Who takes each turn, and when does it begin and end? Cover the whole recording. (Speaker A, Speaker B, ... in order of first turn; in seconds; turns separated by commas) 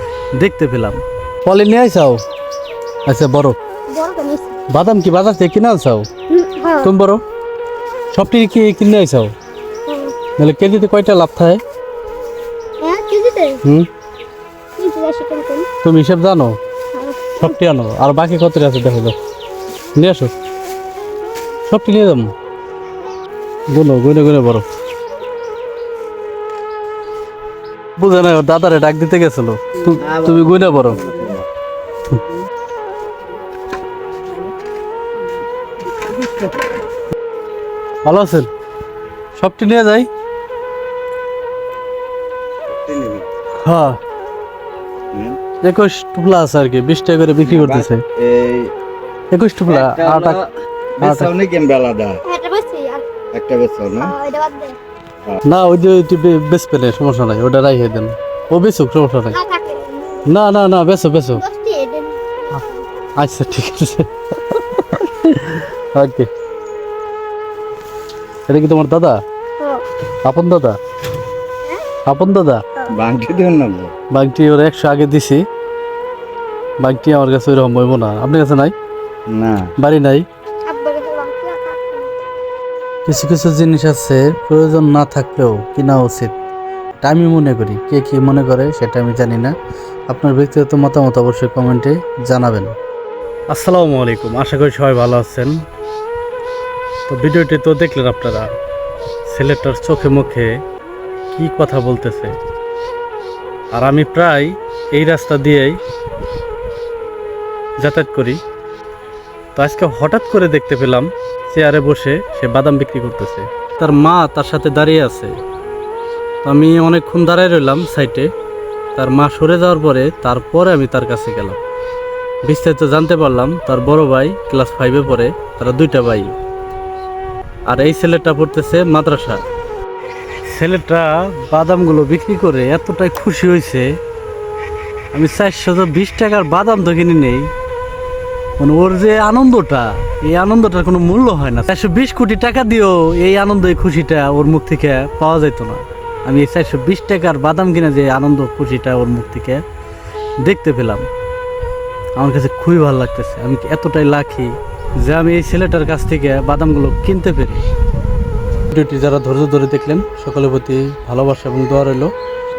Speaker A: 0.4-2.2, Speaker A: 3.1-3.6, Speaker B: 3.9-4.6, Speaker A: 4.7-6.1, Speaker B: 6.3-6.9, Speaker A: 6.8-7.2, Speaker A: 8.1-9.3, Speaker B: 9.9-10.2, Speaker A: 10.4-11.6, Speaker B: 12.8-13.6, Speaker A: 13.6-13.9, Speaker B: 14.8-15.7, Speaker A: 15.8-16.6, Speaker B: 16.9-17.6, Speaker A: 17.4-19.1, Speaker A: 19.9-20.3, Speaker A: 21.7-22.3, Speaker A: 23.7-24.7, Speaker A: 28.0-31.2, Speaker C: 30.0-31.4, Speaker A: 38.0-38.5, Speaker A: 39.4-40.1, Speaker C: 42.7-43.3, Speaker A: 43.6-44.0, Speaker C: 45.1-45.4, Speaker A: 45.6-48.0, Speaker C: 47.5-48.7, Speaker A: 49.3-50.4, Speaker C: 49.7-52.2, Speaker A: 51.0-51.3, Speaker B: 52.2-53.1, Speaker C: 53.3-54.1, Speaker B: 54.0-54.8, Speaker A: 55.4-59.4, Speaker B: 59.3-60.3, Speaker A: 60.2-61.4, Speaker B: 61.4-62.9, Speaker A: 63.2-66.3, Speaker A: 68.5-69.2, Speaker A: 70.2-70.8, Speaker A: 72.1-72.6, Speaker C: 72.9-73.9, Speaker A: 74.1-75.5, Speaker A: 76.8-78.7, Speaker C: 79.3-79.7, Speaker A: 79.8-80.3, Speaker B: 80.7-82.1, Speaker A: 83.1-86.3, Speaker A: 87.0-89.5, Speaker A: 90.1-92.8, Speaker A: 93.5-95.6, Speaker A: 97.1-98.5, Speaker A: 99.3-100.6, Speaker A: 101.3-102.3, Speaker A: 103.7-105.8, Speaker A: 107.8-108.4, Speaker A: 109.6-115.3, Speaker A: 116.4-118.3, Speaker A: 119.0-121.6, Speaker A: 122.5-126.3, Speaker A: 127.7-129.4, Speaker A: 130.5-133.9, Speaker A: 135.1-137.5, Speaker A: 138.6-149.6, Speaker A: 150.4-151.1, Speaker A: 152.2-157.6, Speaker A: 158.7-162.1